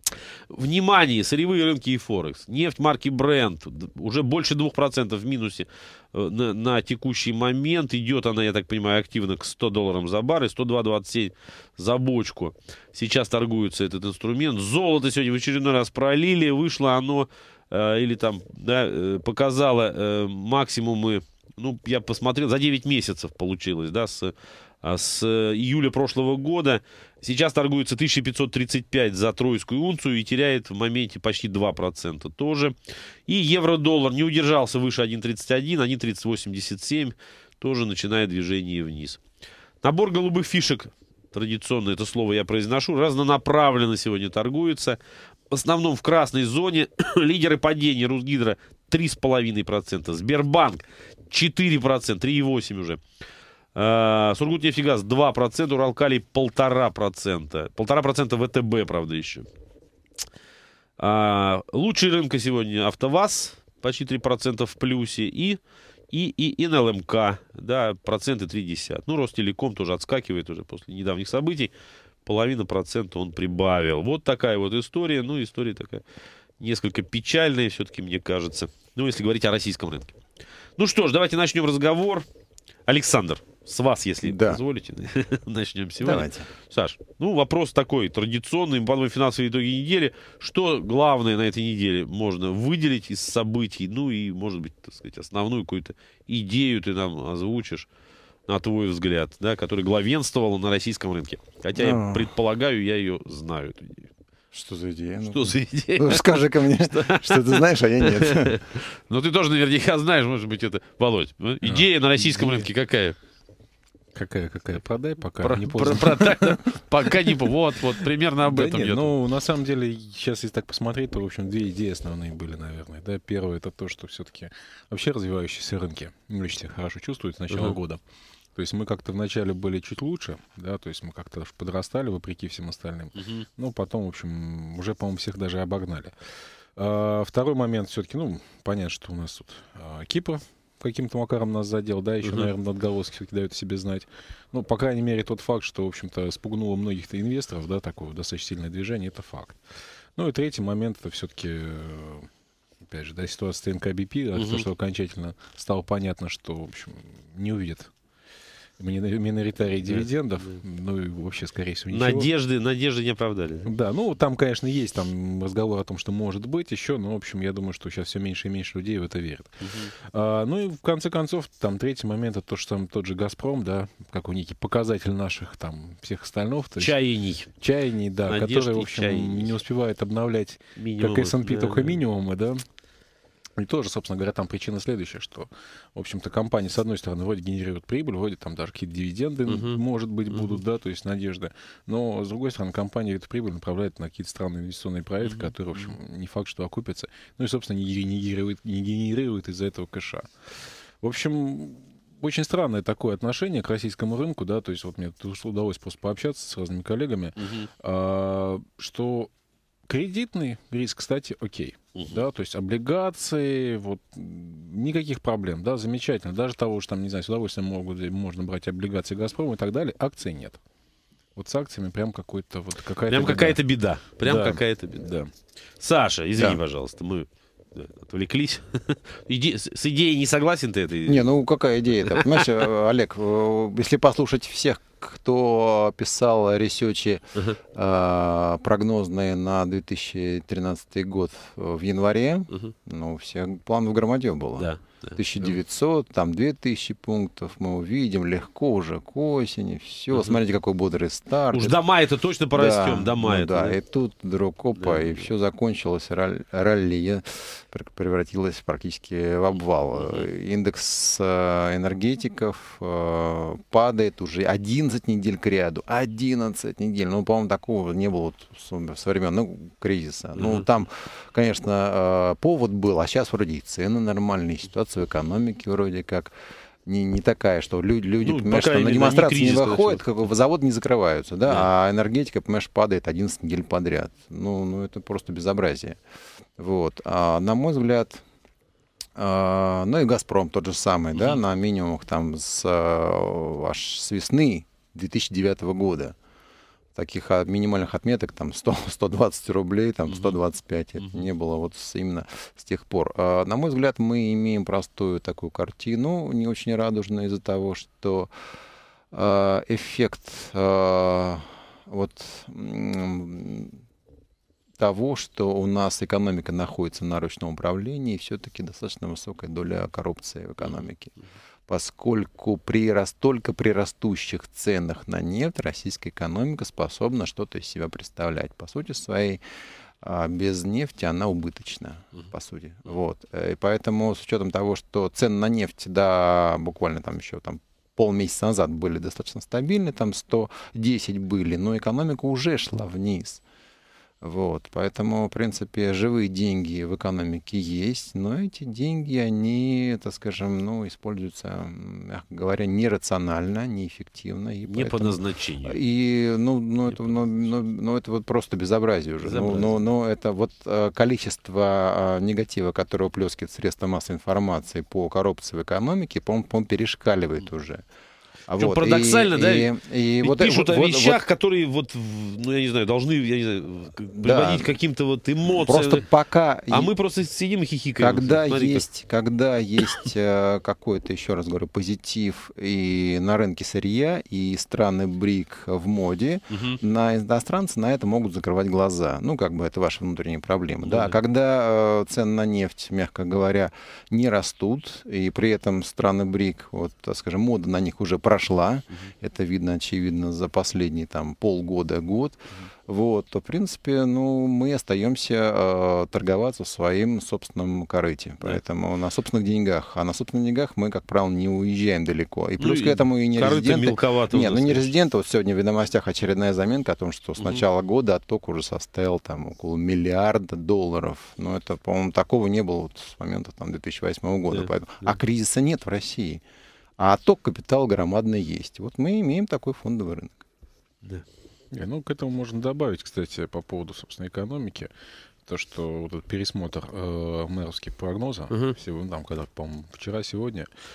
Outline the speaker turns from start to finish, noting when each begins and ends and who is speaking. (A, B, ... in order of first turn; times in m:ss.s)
0:00.5-0:32.8 A
0:33.3-0:39.2 A
0:39.8-0:45.0 A
0:45.5-0:53.0 A
0:53.8-0:59.5 A
1:01.0-1:05.6 A
1:06.1-1:11.7 A
1:12.2-1:16.0 A
1:16.6-1:20.2 A
1:20.8-1:22.3 A
1:22.9-1:37.9 A
1:24.2-1:24.6 B
1:26.0-1:26.5 B
1:38.5-1:44.1 A
1:41.8-1:42.3 B
1:44.5-1:48.6 B
1:45.3-1:53.2 A
1:51.6-1:52.7 C
1:54.2-1:56.6 C
1:55.4-1:59.1 A
1:57.2-1:57.5 C
1:58.4-2:08.0 C
2:07.5-2:07.8 A
2:08.6-2:16.1 C
2:16.8-2:29.6 C
2:22.2-2:22.5 A
2:30.2-2:32.3 C
2:32.8-2:37.9 C
2:34.4-2:34.6 A
2:38.8-2:42.3 C
2:39.9-2:40.6 A
2:41.9-2:43.7 A
2:43.7-2:57.0 C
2:49.6-2:49.9 A
2:56.8-2:57.5 A
2:57.6-3:02.6 C
2:58.3-2:59.6 A
3:00.8-3:02.0 A
3:03.6-3:20.3 C
3:09.5-3:09.8 A
3:10.3-3:10.6 A
3:15.2-3:15.9 A
3:21.0-3:29.3 C
3:27.4-3:27.7 A
3:29.9-3:40.6 C
3:32.0-3:32.2 A
3:41.4-3:43.6 C
3:43.1-3:45.1 A
3:44.2-3:45.3 C
3:45.8-3:51.3 A
3:51.1-4:11.8 B
3:52.0-3:52.5 A
4:04.6-4:05.2 A
4:10.1-4:10.4 A
4:11.5-4:13.8 A
4:12.5-4:36.3 B
4:14.8-4:15.2 A
4:30.4-4:30.7 A
4:36.9-4:46.0 B
4:38.2-4:40.0 A
4:46.6-4:48.2 B
4:49.2-4:56.2 B
4:57.0-5:08.3 B
5:00.1-5:00.4 A
5:09.1-5:13.8 B
5:14.8-5:21.1 B
5:21.7-5:29.4 B
5:30.0-5:43.4 B
5:44.2-6:07.8 B
5:54.7-5:55.8 A
5:59.2-5:59.7 A
6:08.5-6:11.2 B
6:08.6-6:09.7 A
6:10.2-6:16.0 A
6:14.2-6:14.7 B
6:15.5-6:16.9 B
6:16.7-6:18.9 A
6:18.0-7:06.4 B
6:26.5-6:26.8 A
6:30.8-6:31.2 A
6:52.6-6:54.9 A
7:04.5-7:05.2 A
7:07.0-7:10.4 B
7:11.7-7:14.9 C
7:15.5-7:20.7 C
7:18.5-7:18.8 A